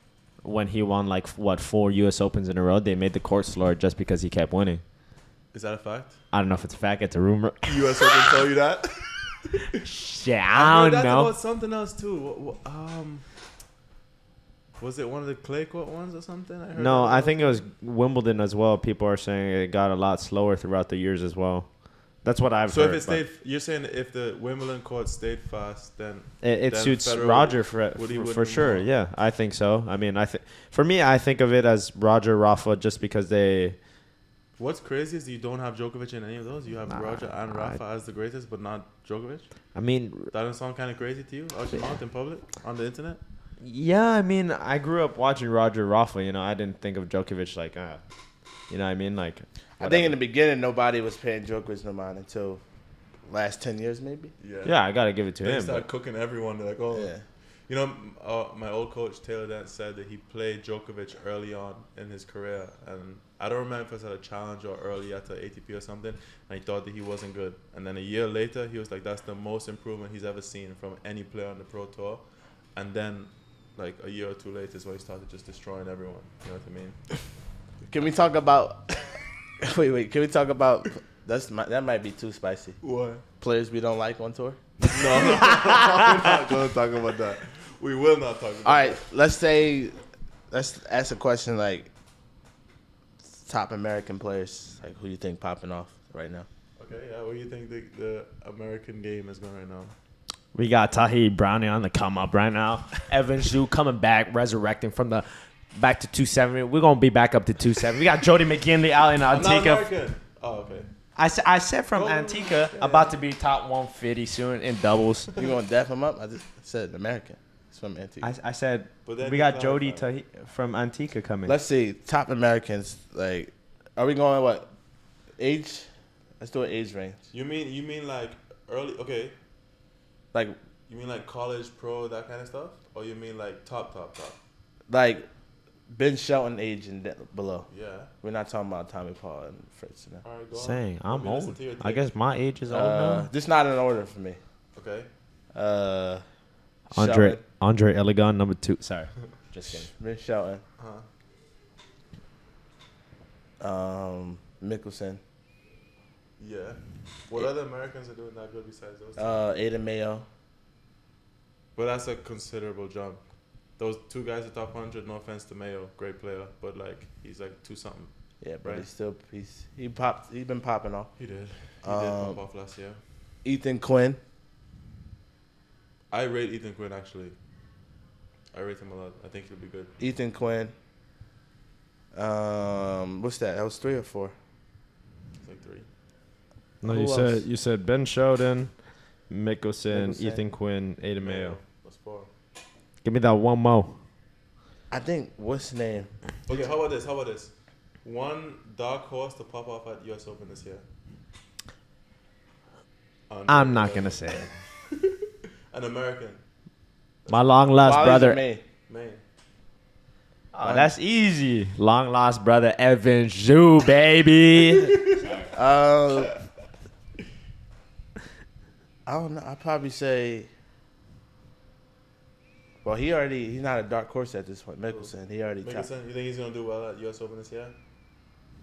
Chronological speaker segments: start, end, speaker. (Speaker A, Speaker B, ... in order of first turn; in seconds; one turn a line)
Speaker A: 0.4-4.8
Speaker B: 5.5-6.2
Speaker A: 6.3-8.4
Speaker B: 7.7-9.8
Speaker A: 9.8-11.3
Speaker B: 10.5-13.3
Speaker B: 14.8-17.6
Speaker A: 16.8-23.2
Speaker B: 22.7-28.9
Speaker A: 26.4-33.8
Speaker B: 34.6-43.2
Speaker A: 36.9-37.8
Speaker A: 39.7-40.3
Speaker A: 43.6-48.0
Speaker A: 48.7-50.1
Speaker C: 49.8-52.6
Speaker C: 53.2-54.3
Speaker B: 54.4-77.2
Speaker A: 54.6-55.9
Speaker C: 56.9-57.2
Speaker C: 77.8-82.8
Speaker B: 82.8-83.2
Speaker C: 83.4-85.6
Speaker B: 84.9-89.0
Speaker C: 88.7-91.9
Speaker C: 93.4-96.5
Speaker B: 96.8-99.9
Speaker A: 100.5-109.9
Speaker B: 109.3-110.9
Speaker A: 111.2-115.3
Speaker B: 112.0-113.1
Speaker C: 115.4-118.3
Speaker A: 118.2-121.5
Speaker B: 119.1-120.1
Speaker C: 121.5-124.7
Speaker C: 125.3-127.2
Speaker B: 127.3-129.4
Speaker B: 130.9-134.4
Speaker C: 134.9-135.3
Speaker C: 135.9-140.2
Speaker B: 137.7-138.1
Speaker B: 140.2-142.1
Speaker A: 140.5-143.3
Speaker C: 142.7-144.4
Speaker B: 144.8-145.1
Speaker C: 145.5-146.2
Speaker C: 146.9-147.4
Speaker A: 146.9-149.9
Speaker C: 149.6-150.6
Speaker B: 150.8-151.1
Speaker C: 153.6-155.2
Speaker B: 156.4-159.4
Speaker C: 159.2-160.3
Speaker B: 161.8-168.9
Speaker C: 168.4-171.3
Speaker B: 171.2-173.0
Speaker C: 171.8-172.4
Speaker C: 173.4-174.2
Speaker B: 176.1-177.4
Speaker B: 178.5-179.9
Speaker C: 180.0-180.7
Speaker C: 182.1-184.3
Speaker B: 185.4-185.9
Speaker A: 186.8-191.6
Speaker C: 186.8-187.5
Speaker C: 189.9-190.4
Speaker B: 191.2-192.3
Speaker A: 193.0-194.0
Speaker C: 194.9-196.6
Speaker B: 196.5-200.8
Speaker B: 203.3-205.2
Speaker A: 203.5-204.5
Speaker B: 205.7-206.5
Speaker B: 207.2-208.1
Speaker A: 207.3-208.4
Speaker C: 207.8-208.6
Speaker B: 208.9-209.2
Speaker A: 210.5-215.5
Speaker C: 210.6-210.9
Speaker C: 215.5-216.3
Speaker C: 219.1-220.5
Speaker C: 222.8-225.9
Speaker B: 224.9-227.8